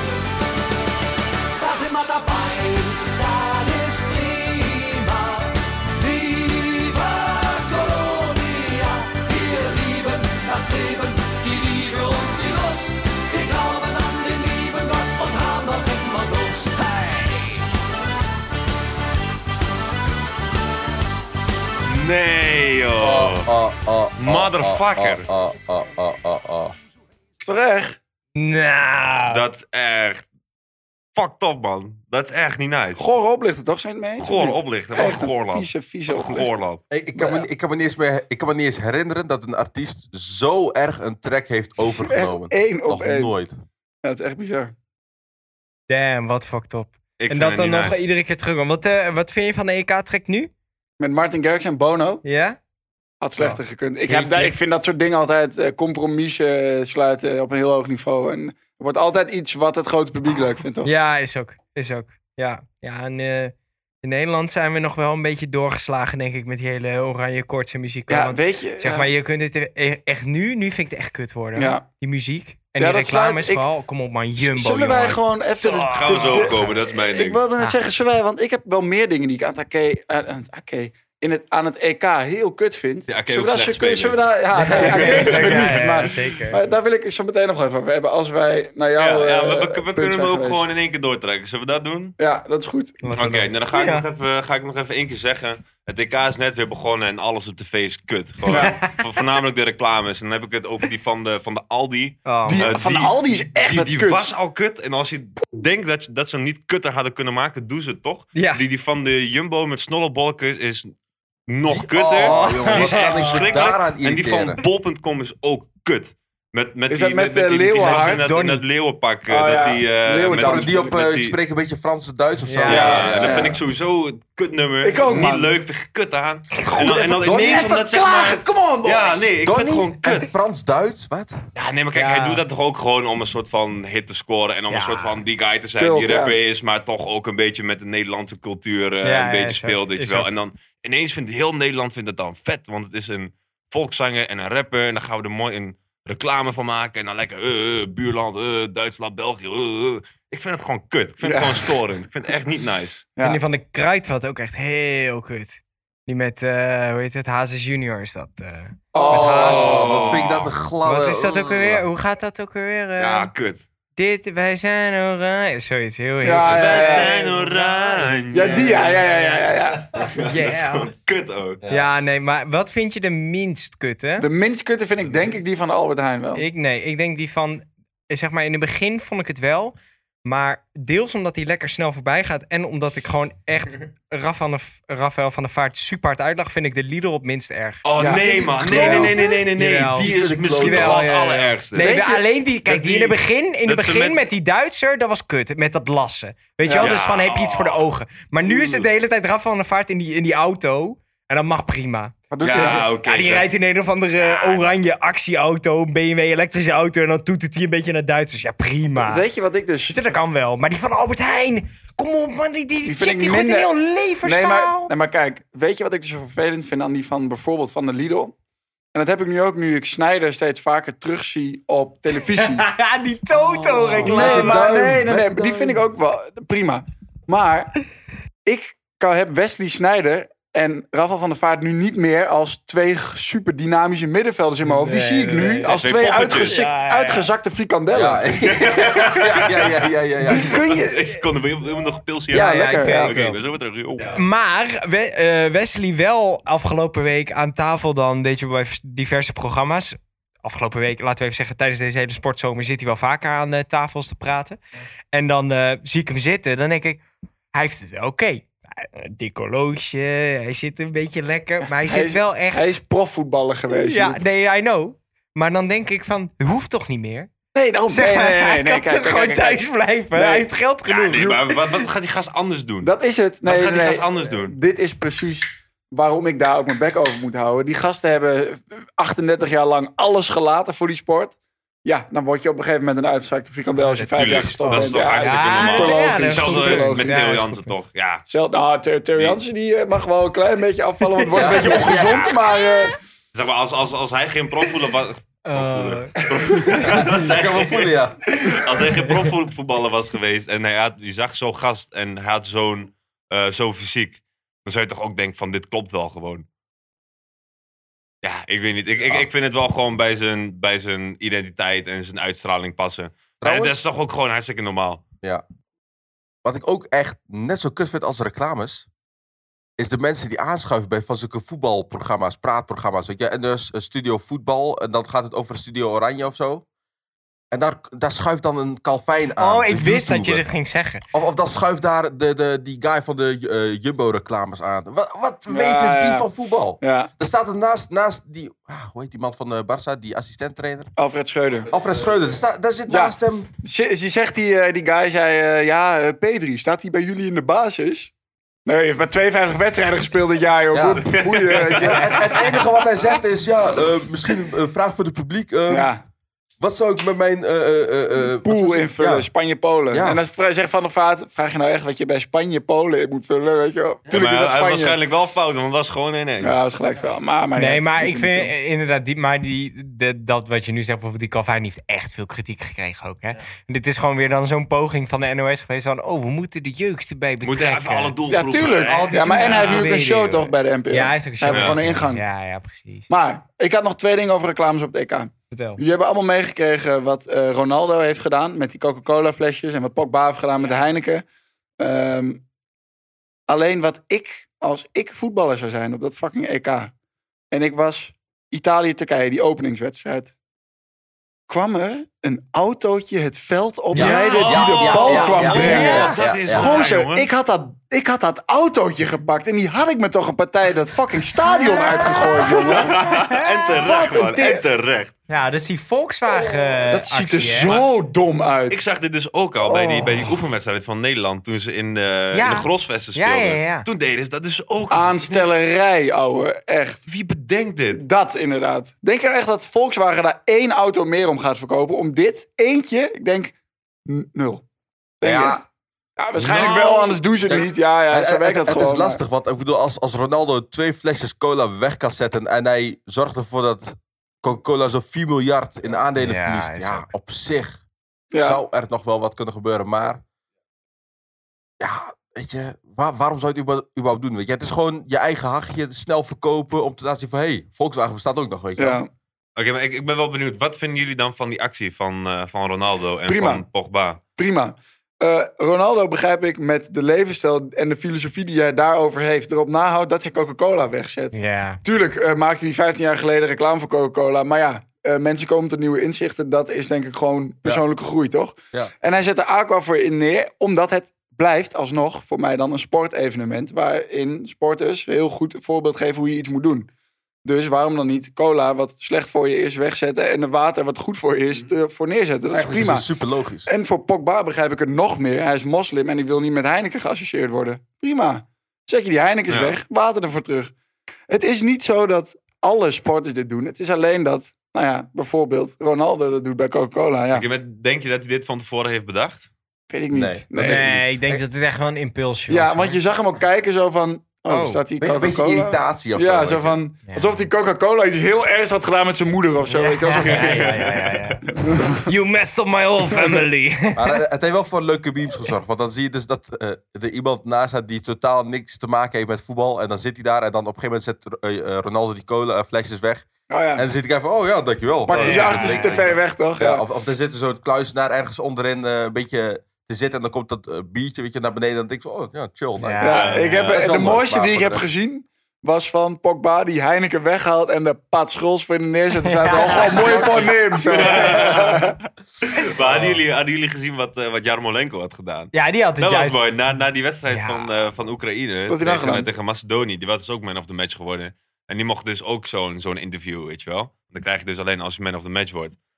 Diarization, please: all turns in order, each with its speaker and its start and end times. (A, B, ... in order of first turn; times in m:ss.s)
0:01.6-0:17.6 A
0:21.8-0:23.5 B
0:23.0-0:26.7 C
0:24.2-0:25.3 B
0:27.4-0:28.0 D
0:28.4-0:29.4 E
0:29.3-0:30.2 B
0:31.1-0:33.0 B
0:33.0-0:36.6 D
0:34.2-0:36.8 B
0:36.9-0:43.6 C
0:37.1-0:37.4 D
0:42.0-0:43.3 D
0:44.0-0:44.7 D
0:45.9-0:50.5 E
0:47.2-0:48.0 B
0:51.0-0:52.2 D
0:52.2-0:52.6 E
0:53.2-1:00.9 D
0:53.4-0:54.5 E
1:00.8-1:16.8 E
1:08.1-1:09.1 D
1:11.6-1:11.8 D
1:12.8-1:13.7 D
1:14.4-1:30.7 D
1:15.8-1:17.4 B
1:23.1-1:26.2 B
1:24.5-1:26.6 E
1:29.0-1:32.1 B
1:32.2-1:33.0 D
1:33.0-1:34.0 E
1:33.1-1:50.9 B
1:38.5-1:38.9 E
1:38.5-1:38.8 D
1:42.2-1:42.7 E
1:42.5-1:44.3 D
1:48.3-1:48.6 E
1:51.5-2:01.4 B
1:51.7-1:54.6 C
1:52.2-1:53.3 E
1:56.9-1:58.2 D
1:57.8-1:58.6 E
1:59.3-2:01.0 D
2:00.2-2:03.6 C
2:02.4-2:03.1 E
2:02.6-2:10.3 B
2:03.1-2:03.6 D
2:04.8-2:05.5 D
2:06.6-2:07.0 E
2:06.7-2:08.0 D
2:07.3-2:09.2 A
2:09.4-2:11.4 C
2:11.5-2:33.1 B
2:11.9-2:12.4 E
2:14.7-2:15.2 E
2:15.8-2:16.4 D
2:19.0-2:20.3 E
2:31.2-2:31.7 D
2:33.2-2:33.4 D
2:33.2-2:39.9 E
2:38.9-2:40.0 D
2:39.1-2:41.8 C
2:39.2-2:40.5 B
2:40.8-2:43.3 E
2:43.0-2:43.7 B
2:44.0-2:47.3 E
2:46.2-2:47.1 D
2:46.3-2:49.0 B
2:48.3-2:50.0 D
2:50.0-2:51.6 B
2:50.2-2:50.9 E
2:51.6-2:51.9 C
2:51.7-2:54.3 E
2:54.2-2:56.4 D
2:56.4-2:59.7 E
3:00.2-3:07.8 E
3:07.8-3:11.9 B
3:08.0-3:08.5 D
3:08.2-3:11.1 C
3:08.6-3:29.2 E
3:11.8-3:12.2 D
3:12.7-3:14.3 B
3:16.6-3:16.9 D
3:16.8-3:17.8 B
3:22.3-3:22.9 D
3:22.4-3:23.5 B
3:24.2-3:24.7 B
3:29.0-3:30.0 D
3:29.9-3:34.9 E
3:32.8-3:38.3 D
3:38.9-3:42.7 D
3:42.4-3:44.8 E
3:43.4-3:45.8 C
3:43.7-3:47.7 D
3:48.4-3:58.2 D
3:54.6-3:55.8 E
3:55.6-3:56.6 B
3:56.5-3:57.3 E
3:57.9-4:00.6 C
3:58.6-4:04.2 B
4:00.2-4:01.0 D
4:02.3-4:03.1 D
4:02.3-4:03.4 E
4:04.1-4:14.6 E
4:15.1-4:17.0 E
4:17.5-4:22.6 E
4:21.8-4:24.2 D
4:23.8-4:27.3 E
4:27.5-4:30.5 D
4:27.9-4:31.3 E
4:30.9-4:32.9 B
4:31.2-4:31.6 D
4:32.8-4:47.2 D
4:33.4-4:34.5 B
4:43.8-4:47.7 E
4:44.2-4:48.2 B
4:48.3-4:53.0 D
4:51.0-4:52.1 E
4:51.3-4:52.3 C
4:53.3-5:06.4 B
4:55.4-4:57.2 E
4:56.8-4:58.4 C
4:59.0-4:59.2 E
5:08.2-5:15.0 B
5:13.4-5:13.8 C
5:16.4-5:18.9 C
5:19.8-5:26.6 C
5:27.5-5:30.4 C
5:29.4-5:31.0 E
5:31.1-5:40.9 C
5:35.5-5:36.3 D
5:36.8-5:37.1 D
5:41.0-5:41.7 D
5:41.7-5:43.5 C
5:42.9-5:48.1 D
5:48.6-5:52.6 D
5:50.7-5:55.9 C
5:51.1-5:52.4 B
5:55.7-5:56.0 D
5:56.6-5:59.3 C
5:58.4-6:05.0 D
5:59.9-6:00.2 C
6:04.1-6:06.5 B
6:06.4-6:08.5 D
6:07.6-6:18.1 E
6:17.4-6:19.9 B
6:18.3-6:22.2 D
6:19.1-6:23.1 E
6:21.5-6:21.8 B
6:23.1-6:31.2 D
6:25.5-6:25.8 E
6:31.8-6:32.4 D
6:33.5-6:36.9 D
6:37.5-6:40.3 D
6:41.5-6:53.0 D
6:43.9-6:44.4 E
6:43.9-6:46.8 C
6:44.0-6:47.3 B
6:45.3-6:46.2 E
6:51.4-6:53.8 E
6:52.4-6:55.1 B
6:53.8-6:54.6 D
6:55.3-6:57.8 E
6:56.3-6:58.8 D
6:58.7-7:05.4 B
6:59.6-7:00.4 D
7:02.3-7:03.8 E
7:04.9-7:07.0 D
7:07.1-7:08.0 B
7:07.9-7:13.5 D
7:14.1-7:14.6 D
7:15.2-7:15.6 D
7:15.2-7:15.6 C
7:16.2-7:19.2 D
7:16.4-7:17.2 B
7:16.5-7:16.8 C
7:17.4-7:27.8 C
7:26.2-7:27.1 E
7:28.3-7:28.6 D
7:28.3-7:30.2 C
7:31.8-7:39.0 C
7:38.8-7:39.1 D
7:39.6-7:44.2 B
7:43.3-7:43.6 D
7:44.4-8:06.9 D
7:51.3-7:51.8 E
8:07.4-8:13.0 D
8:12.5-8:13.7 C
8:13.6-8:20.7 D
8:19.5-8:19.8 B
8:21.3-8:27.4 D
8:27.3-8:29.5 B
8:29.9-8:31.0 D
8:30.1-8:31.4 C
8:30.6-8:33.0 E
8:32.5-8:40.8 D
8:34.5-8:34.8 E
8:35.0-8:36.8 C
8:37.1-8:37.4 E
8:39.7-8:41.4 E
8:40.2-8:41.2 B
8:41.5-8:42.1 D
8:42.0-8:44.2 E
8:43.9-9:04.9 C
8:53.5-8:53.8 D
8:55.0-8:56.8 D
8:55.1-8:56.1 E
9:02.8-9:03.2 E
9:03.0-9:12.0 D
9:03.1-9:03.8 B
9:09.2-9:10.4 E
9:09.9-9:11.9 B
9:12.5-9:25.8 B
9:15.5-9:16.4 E
9:17.3-9:17.7 E
9:18.7-9:19.3 D